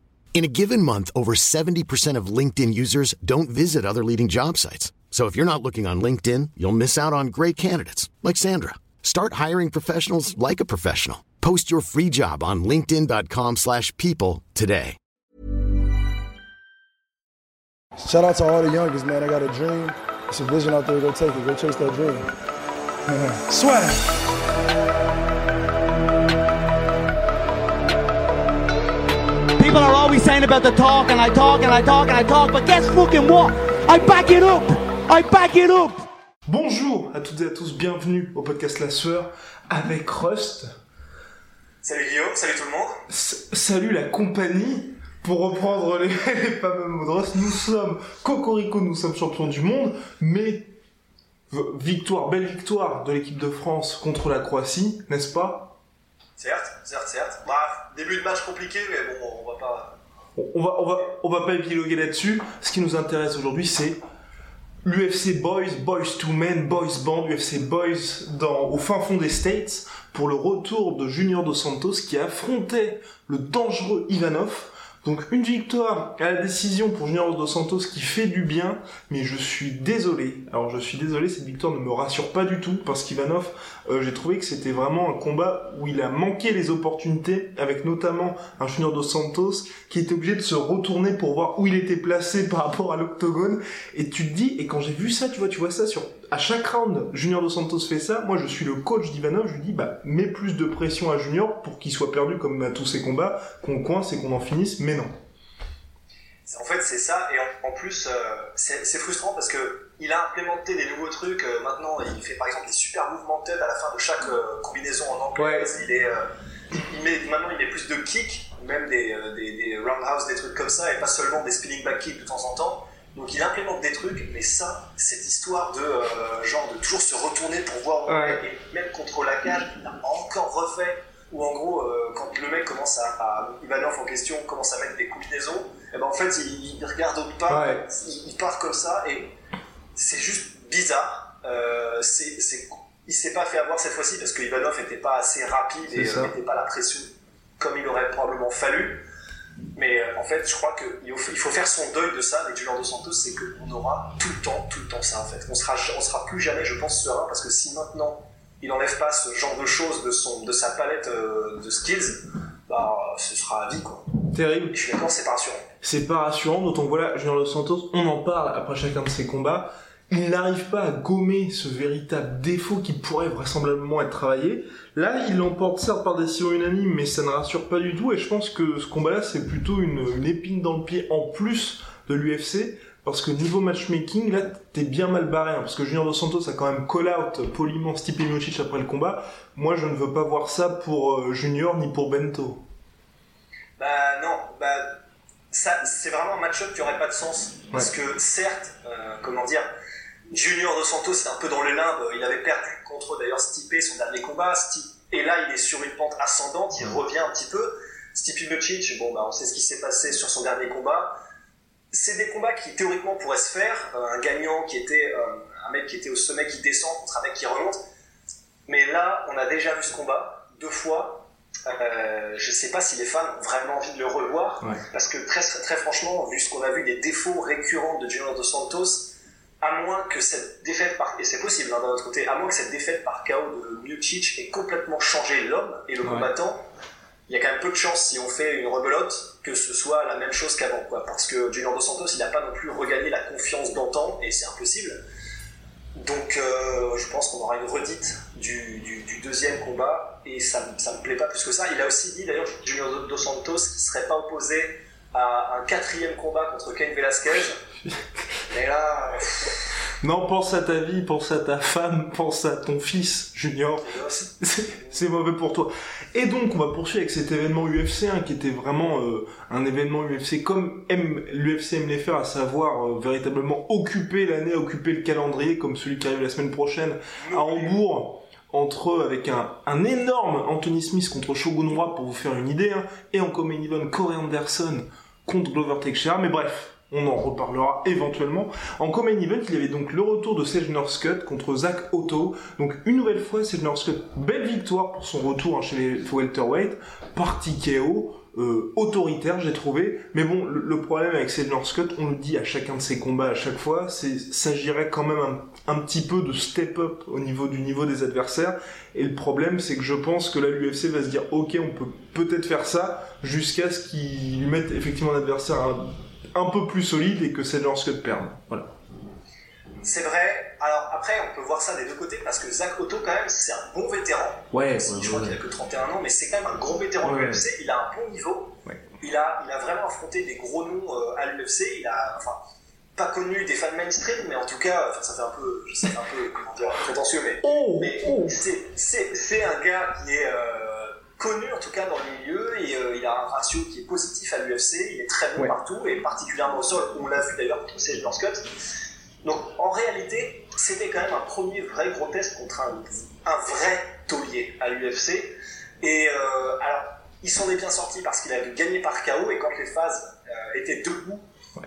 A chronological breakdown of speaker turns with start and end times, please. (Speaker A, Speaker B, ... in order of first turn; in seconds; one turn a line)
Speaker A: 0.3-15.0
Speaker B: 18.0-22.3
Speaker B: 23.1-24.0
Speaker C: 29.6-36.0
Speaker D: 36.5-40.8
Speaker E: 41.8-43.0
Speaker D: 43.1-50.7
Speaker D: 51.5-55.8
Speaker E: 56.4-60.0
Speaker D: 60.4-64.0
Speaker D: 64.8-105.1
Speaker E: 106.5-139.3
Speaker D: 115.4-115.7
Speaker D: 128.1-128.4
Speaker D: 137.5-137.8
Speaker E: 139.9-149.1
Speaker D: 145.9-146.3
Speaker E: 149.8-164.1
Speaker D: 164.3-164.8
Speaker E: 164.7-165.7
Speaker D: 165.8-192.6
Speaker E: 193.8-194.9
Speaker E: 195.5-199.7
Speaker E: 200.3-211.2
Speaker E: 211.9-217.8
Speaker E: 218.7-236.6
Speaker D: 236.0-236.3
Speaker E: 237.3-245.0
Speaker E: 246.0-257.6
Speaker E: 258.5-259.6
Speaker D: 260.0-318.7
Speaker E: 263.8-264.3
Speaker E: 277.2-277.8
Speaker E: 319.8-332.4
Speaker D: 324.5-325.4
Speaker D: 327.0-327.4
Speaker E: 333.0-348.5
Speaker D: 337.4-338.4
Speaker E: 349.2-361.2